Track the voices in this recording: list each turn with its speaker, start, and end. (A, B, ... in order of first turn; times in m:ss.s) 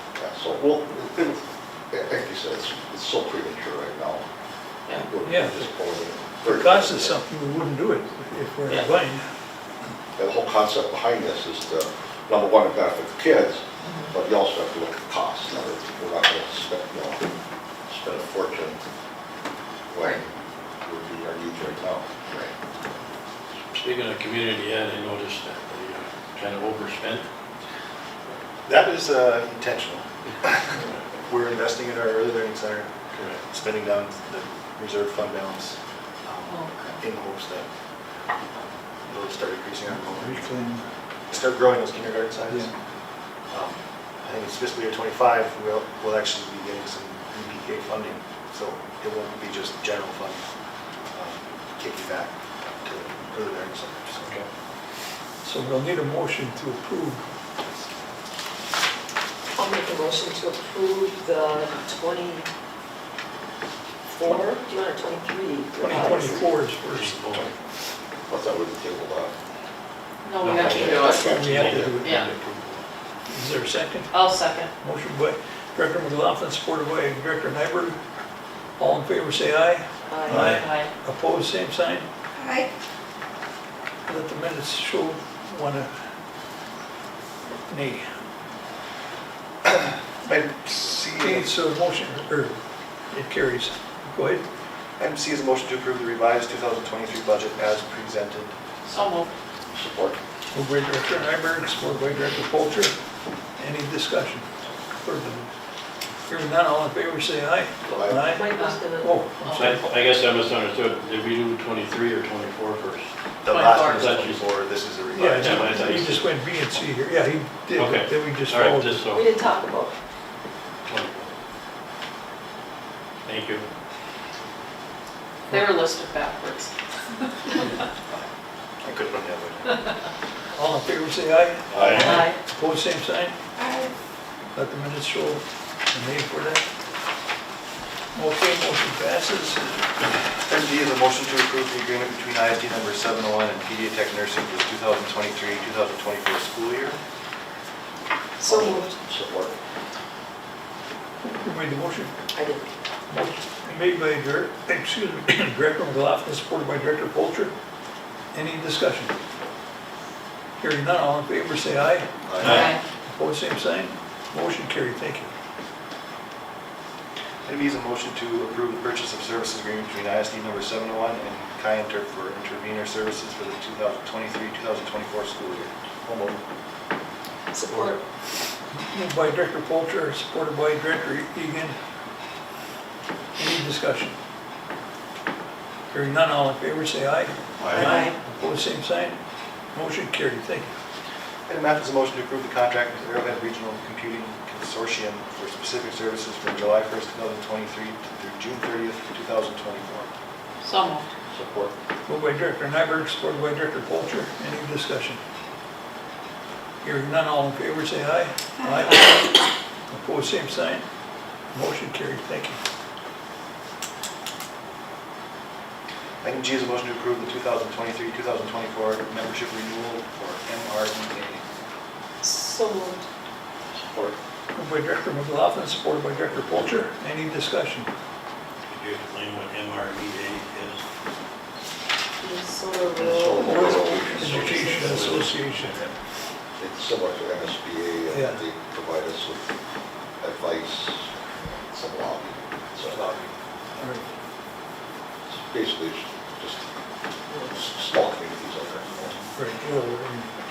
0:00.2-0:04.2 A
0:04.9-0:07.2 A
0:05.2-0:05.7 B
0:06.4-0:09.2 B
0:10.2-0:17.3 A
0:17.9-0:18.8 A
0:19.9-0:22.5 A
0:23.7-0:27.3 C
0:28.6-0:37.7 D
0:36.5-0:37.0 E
0:39.1-0:40.4 D
0:39.9-0:40.8 B
0:41.3-0:42.7 D
0:43.5-0:50.4 D
0:51.1-0:54.4 D
0:55.4-0:57.2 B
0:59.6-1:02.5 F
1:04.1-1:06.5 F
1:05.8-1:07.1 B
1:06.8-1:07.5 C
1:08.3-1:09.3 A
1:10.2-1:11.2 E
1:10.4-1:12.9 C
1:10.5-1:11.3 F
1:10.5-1:12.0 A
1:11.0-1:12.2 B
1:13.3-1:14.1 B
1:14.1-1:14.7 E
1:14.2-1:14.6 F
1:14.8-1:18.0 B
1:18.8-1:22.1 B
1:20.1-1:20.6 F
1:20.3-1:20.6 C
1:20.5-1:20.9 E
1:24.1-1:25.9 B
1:27.7-1:28.0 B
1:29.7-1:31.5 D
1:31.2-1:32.6 B
1:33.1-1:34.4 B
1:35.0-1:38.6 D
1:38.9-1:39.3 E
1:39.7-1:40.2 A
1:40.5-1:43.0 B
1:43.6-1:44.5 B
1:45.0-1:45.5 B
1:46.3-1:49.8 B
1:47.9-1:48.3 A
1:48.3-1:49.7 F
1:49.6-1:53.1 C
1:53.4-1:56.1 D
1:53.5-1:54.0 E
1:54.0-1:54.4 C
1:55.1-1:59.1 B
1:55.4-1:56.2 C
1:57.8-1:59.5 C
1:59.1-1:59.9 F
2:00.9-2:01.3 C
2:03.2-2:03.6 C
2:05.5-2:06.7 E
2:08.8-2:09.9 D
2:10.5-2:13.4 B
2:11.7-2:12.2 D
2:11.7-2:12.2 C
2:12.1-2:12.4 E
2:14.6-2:16.6 B
2:18.1-2:19.8 B
2:20.5-2:27.0 D
2:28.4-2:29.0 F
2:28.4-2:29.6 A
2:31.2-2:32.1 B
2:32.3-2:32.7 F
2:33.1-2:37.5 B
2:38.3-2:39.1 B
2:40.6-2:45.3 B
2:42.3-2:42.7 D
2:42.5-2:42.8 E
2:47.4-2:56.4 D
2:57.5-2:58.0 F
2:58.9-3:01.8 B
3:03.4-3:04.2 B
3:05.9-3:09.2 B
3:09.7-3:10.8 B
3:11.5-3:20.1 D
3:20.6-3:21.1 E
3:21.3-3:21.7 A
3:22.1-3:25.2 B
3:26.8-3:30.8 B
3:31.5-3:32.6 B
3:36.2-3:41.4 D
3:42.2-3:43.1 F
3:43.8-3:44.2 A
3:44.6-3:47.9 B
3:48.7-3:50.8 C
3:52.2-3:55.1 F
3:52.9-3:55.3 A
3:53.4-3:55.8 B
3:54.8-3:55.9 C
3:56.6-3:59.4 A
3:58.1-3:58.4 B
4:00.2-4:03.2 A
4:02.8-4:03.3 D
4:03.8-4:04.1 B
4:05.3-4:06.6 A
4:07.5-4:09.2 A
4:09.4-4:10.3 B